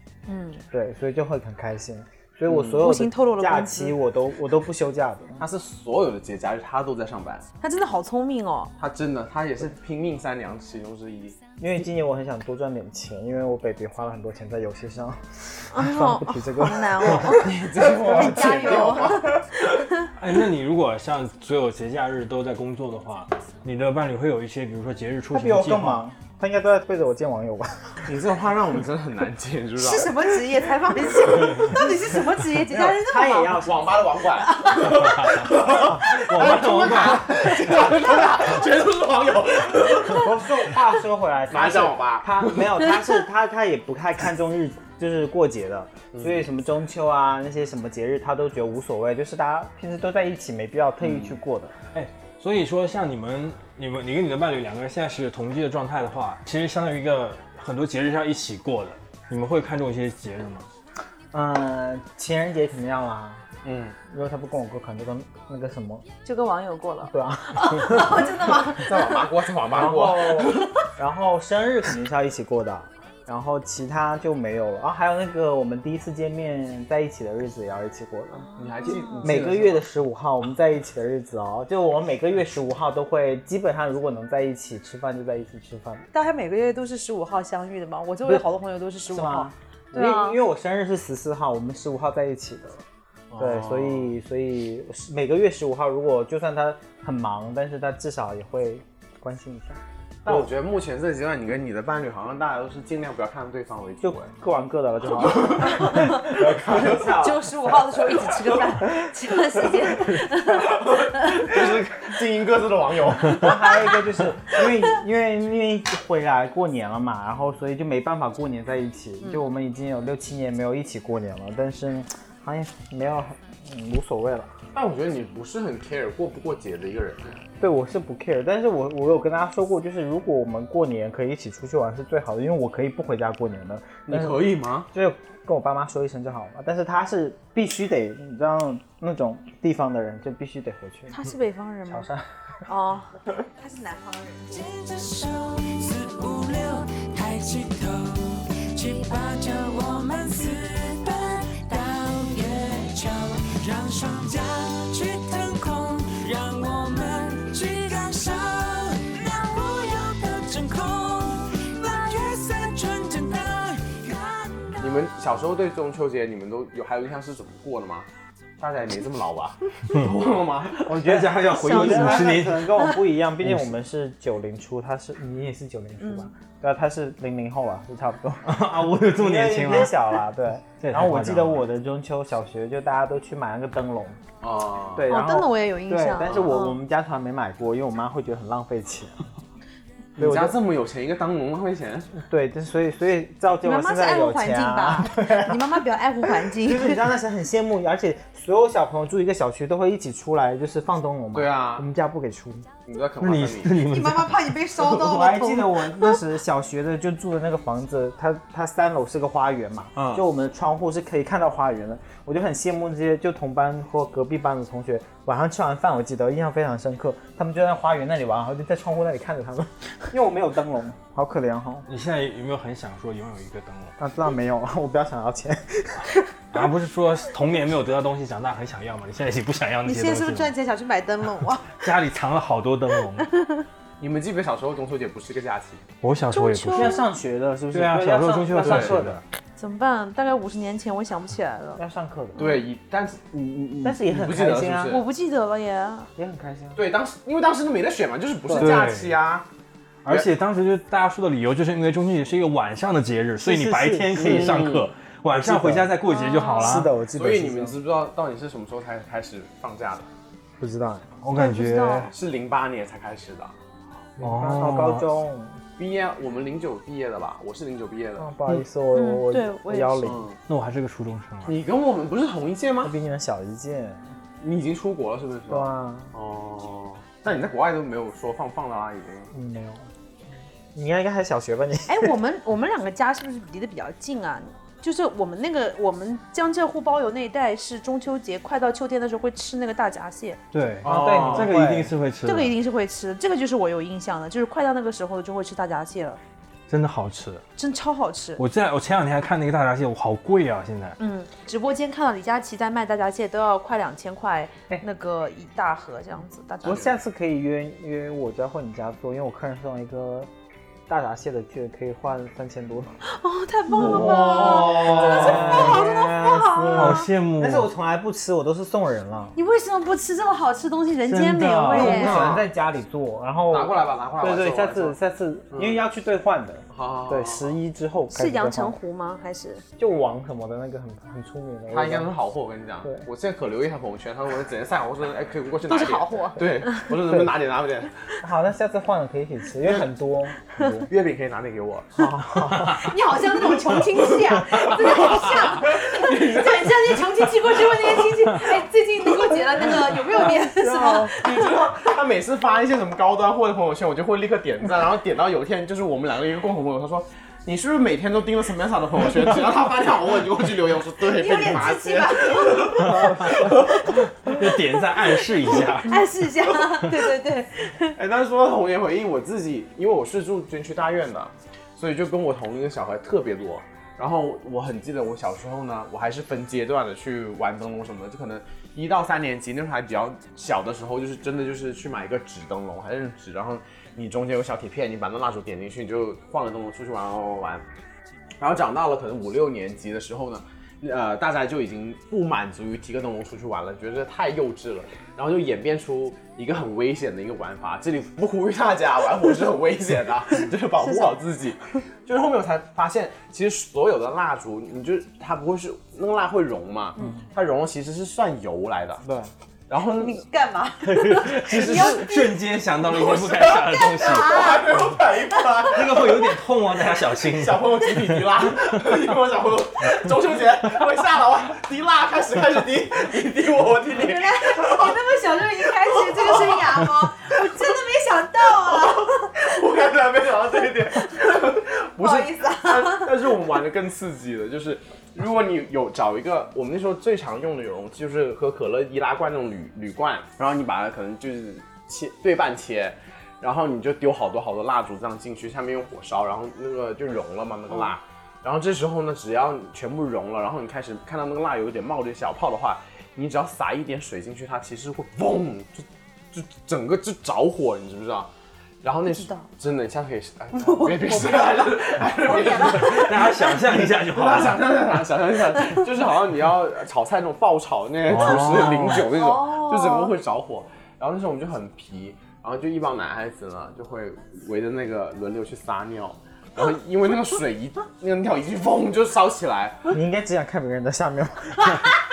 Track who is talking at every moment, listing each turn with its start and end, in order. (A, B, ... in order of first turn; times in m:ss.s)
0:00.3-0:00.6 A
0:00.7-0:05.5 B
0:02.5-0:02.8 C
0:02.8-0:04.0 A
0:05.4-0:07.4 C
0:07.6-0:08.7 A
0:08.8-0:11.4 C
0:11.6-0:17.4 B
0:15.7-0:17.5 A
0:17.2-0:19.6 C
0:18.0-0:20.0 A
0:20.2-0:26.0 D
0:25.3-0:28.1 B
0:28.1-0:30.2 C
0:29.8-0:33.6 A
0:32.7-0:34.0 B
0:33.6-0:40.8 C
0:34.6-0:34.9 A
0:35.2-0:37.5 D
0:40.1-0:51.8 B
0:41.5-0:42.7 C
0:46.1-0:46.4 C
0:51.0-0:51.4 C
0:51.9-1:00.7 D
1:01.3-1:03.4 B
1:03.6-1:04.0 C
1:04.1-1:06.1 B
1:06.2-1:09.2 A
1:07.1-1:08.3 B
1:08.7-1:10.7 C
1:09.7-1:26.1 B
1:18.6-1:19.8 C
1:18.9-1:19.2 A
1:26.1-1:30.4 A
1:29.1-1:32.8 B
1:33.3-1:34.1 C
1:33.4-1:40.5 B
1:40.2-1:44.3 C
1:44.0-1:47.5 B
1:45.2-1:47.2 C
1:45.8-1:46.2 A
1:47.2-1:51.5 A
1:50.8-1:53.6 C
1:53.2-2:04.5 B
2:04.7-2:07.4 C
2:07.6-2:21.2 B
2:14.1-2:14.9 C
2:21.1-2:22.1 A
2:21.9-2:22.3 B
2:22.7-2:24.7 A
2:24.5-2:45.0 E
2:44.8-2:48.1 C
2:48.6-2:51.2 C
2:50.8-3:04.2 B
2:50.9-2:52.8 D
2:51.6-2:52.3 A
2:56.0-2:56.3 A
2:58.5-3:00.2 D
3:00.8-3:01.7 D
3:04.4-3:05.1 C
3:05.0-3:09.3 B
3:05.1-3:06.8 A
3:10.2-3:10.6 B
3:10.2-3:12.1 C
3:12.2-3:15.6 B
3:13.6-3:17.0 A
3:16.2-3:22.7 B
3:21.3-3:21.9 C
3:22.9-3:23.8 C
3:23.2-3:24.4 D
3:23.9-3:26.2 A
3:24.8-3:41.9 B
3:30.0-3:30.2 C
3:41.9-3:44.0 D
3:44.0-3:46.2 B
3:46.5-3:50.5 D
3:49.9-3:51.7 A
3:51.8-3:53.3 D
3:53.3-3:53.7 A
3:54.0-3:55.9 C
3:56.0-3:57.0 D
3:56.3-3:57.0 A
3:56.7-3:59.2 B
3:57.7-3:59.2 D
3:58.6-3:59.0 C
3:59.6-4:01.8 A
4:01.8-4:02.5 B
4:02.4-4:05.0 C
4:03.8-4:05.0 B
4:04.9-4:06.1 A
4:06.2-4:06.8 B
4:06.8-4:09.5 C
4:08.5-4:08.9 B
4:08.6-4:09.2 D
4:10.0-4:16.9 D
4:13.4-4:14.7 B
4:14.2-4:14.9 C
4:15.3-4:16.0 B
4:16.1-4:16.8 A
4:16.6-4:17.8 B
4:17.2-4:20.1 C
4:20.6-4:21.2 B
4:21.2-4:22.1 D
4:21.4-4:22.1 A
4:22.1-4:23.6 C
4:24.2-4:25.6 B
4:24.2-4:25.1 D
4:25.8-4:28.3 C
4:28.2-4:30.3 B
4:28.9-4:30.1 A
4:30.0-4:30.4 C
4:30.5-4:31.6 D
4:31.5-4:32.9 C
4:32.8-4:34.1 B
4:34.4-4:39.3 C
4:35.5-4:36.1 B
4:39.3-4:39.9 B
4:40.8-4:42.2 B
4:41.9-4:50.4 A
4:50.5-4:52.6 D
4:50.8-4:51.6 C
4:50.8-4:51.9 B
4:52.2-4:56.2 A
4:56.7-4:57.4 D
4:57.6-4:58.4 A
4:58.4-5:01.0 D
5:01.0-5:06.9 A
5:06.6-5:10.3 B
5:10.9-5:13.0 B
5:13.1-5:17.1 A
5:13.8-5:15.8 C
5:13.8-5:15.8 D
5:14.2-5:19.4 B
5:16.7-5:17.7 D
5:19.4-5:22.2 A
5:21.1-5:22.1 D
5:21.7-5:28.8 B
5:21.8-5:22.5 C
5:23.5-5:25.0 C
5:25.5-5:25.8 C
5:26.7-5:27.6 C
5:28.1-5:29.6 A
5:29.8-5:32.1 B
5:31.7-5:38.0 C
5:35.7-5:36.8 A
5:37.0-5:37.3 B
5:38.2-5:40.9 B
5:40.9-5:42.0 C
5:42.0-5:42.9 B
5:42.7-5:51.4 A
5:44.6-5:48.0 C
5:50.3-5:51.2 B
5:51.2-6:04.0 C
6:01.1-6:03.0 A
6:02.8-6:06.1 D
6:05.9-6:08.0 A
6:08.0-6:27.6 C
6:28.4-6:49.0 C
6:40.8-6:41.1 A
6:47.0-6:47.2 B
6:49.0-6:49.3 B
6:49.7-6:50.2 C
6:50.0-6:52.3 A
6:50.8-6:54.8 D
6:51.4-6:52.1 C
6:52.8-7:05.0 C
6:53.9-6:54.8 A
6:55.3-6:55.7 A
6:55.7-6:58.2 D
7:03.9-7:09.4 A
7:06.0-7:06.6 C
7:08.8-7:38.3 C
7:11.0-7:11.4 A
7:12.0-7:13.1 A
7:38.8-7:59.9 C
7:39.1-7:39.5 A
7:40.5-7:43.3 A
7:42.8-7:44.6 D
7:48.1-7:49.0 D
7:48.9-7:50.1 A
7:59.9-8:01.8 B